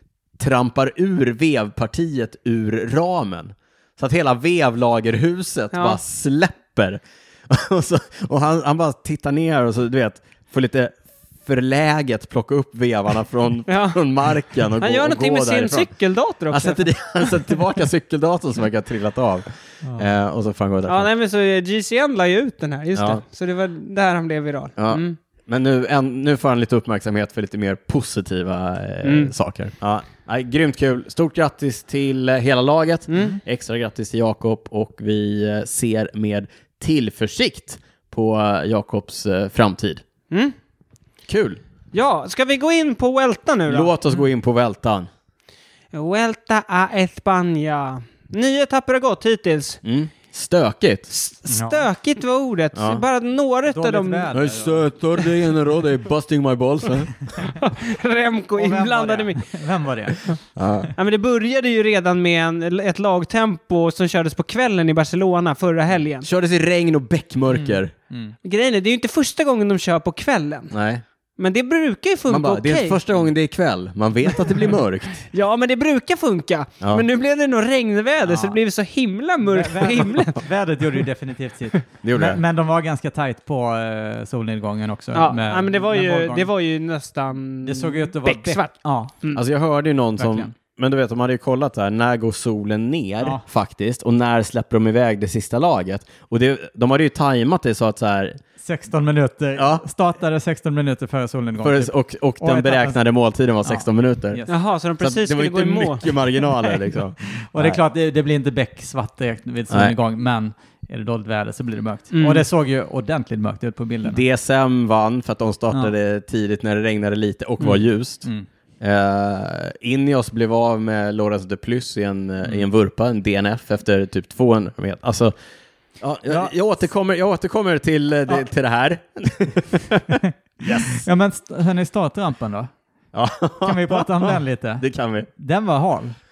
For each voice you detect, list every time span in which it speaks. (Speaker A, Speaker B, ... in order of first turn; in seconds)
Speaker A: 0.4-15.9, 16.5-21.1, 22.9-23.2, 24.8-40.0, 41.3-41.6, 43.7-45.1, 49.8-51.1, 52.8-53.0, 54.3-57.1, 60.6-60.9, 66.2-67.9, 70.7-71.0, 72.3-75.3, 82.0-82.4, 89.3-98.4, 99.6-99.8, 101.6-104.5, 105.0-107.8, 109.7-110.0, 114.0-118.3, 118.8-125.3, 126.0-131.1, 133.1-135.3
Speaker B: 5.7-6.0, 13.7-14.0, 14.8-16.9, 20.9-25.2, 29.0-29.3, 33.1-33.4, 41.9-43.9, 45.9-49.8, 51.1-54.3, 57.4-59.5, 61.0-66.3, 68.4-70.7, 71.4-73.0, 75.3-80.5, 85.1-89.4, 104.5-106.1, 112.1-112.5
Speaker C: 51.5-51.9, 53.7-54.9, 58.6-60.8, 67.5-68.3, 78.2-78.6, 79.4-86.5, 87.6-89.1, 90.2-90.5, 98.6-103.0, 103.6-104.5, 107.3-114.2, 117.6-118.5, 126.3-126.6, 130.2-132.7, 133.6-134.8, 135.4-136.2